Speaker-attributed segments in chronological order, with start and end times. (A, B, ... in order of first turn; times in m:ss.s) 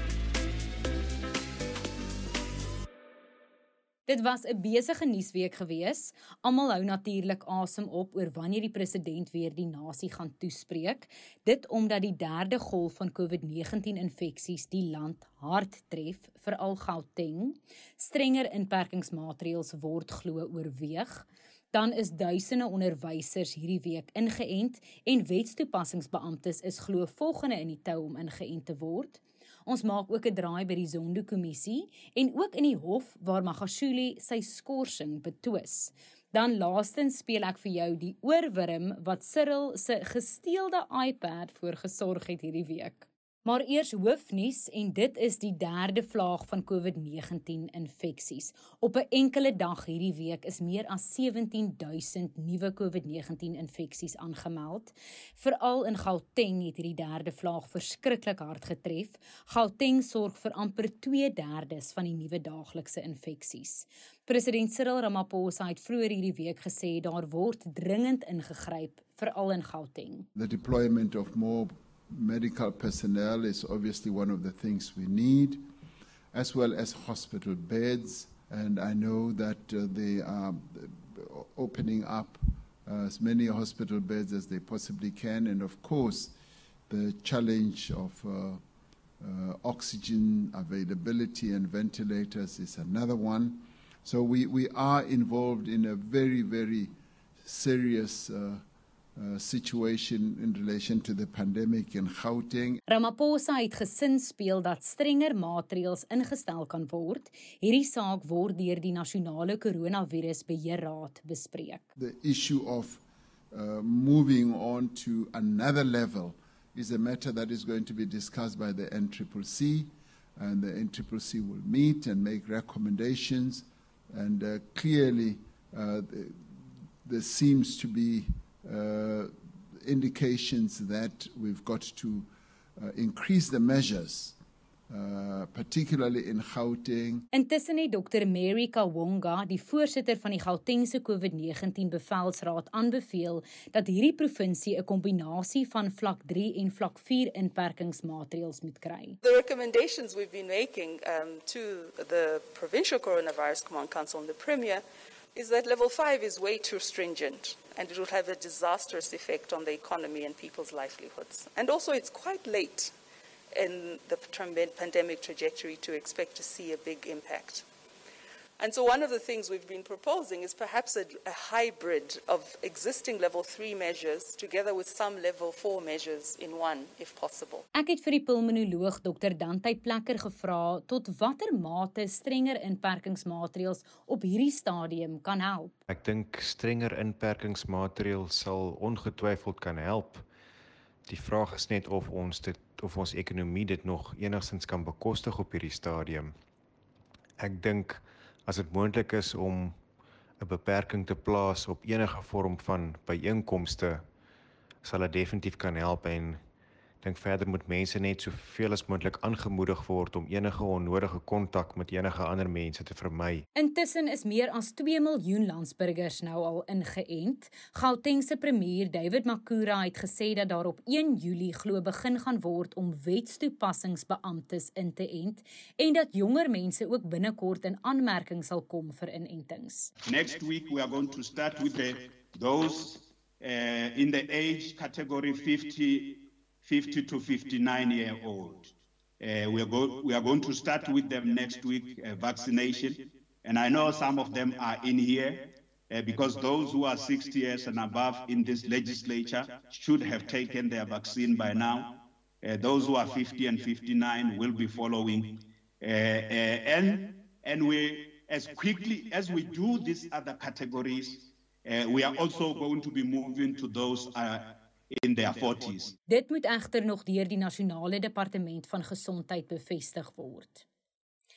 0:04.1-1:10.3 A
1:10.4-1:15.6 B
1:16.3-1:26.4 B
1:26.9-1:28.6 B
1:29.2-1:38.6 B
1:39.2-1:42.8 B
1:42.9-1:51.9 A
1:52.0-2:14.4 B
2:14.9-2:17.3 B
2:17.3-2:29.2 A
2:29.3-2:34.8 C
2:35.4-2:42.9 C
2:43.6-2:47.6 C
2:48.6-2:57.6 C
2:57.8-3:05.8 A
3:05.9-3:10.2 D
3:11.1-3:16.3 D
3:17.4-3:19.8 D
3:20.4-3:24.0 D
3:24.8-3:26.4 D
3:27.0-3:33.4 D
3:33.6-3:49.9 A
3:50.0-4:26.0 E
4:26.1-4:30.7 A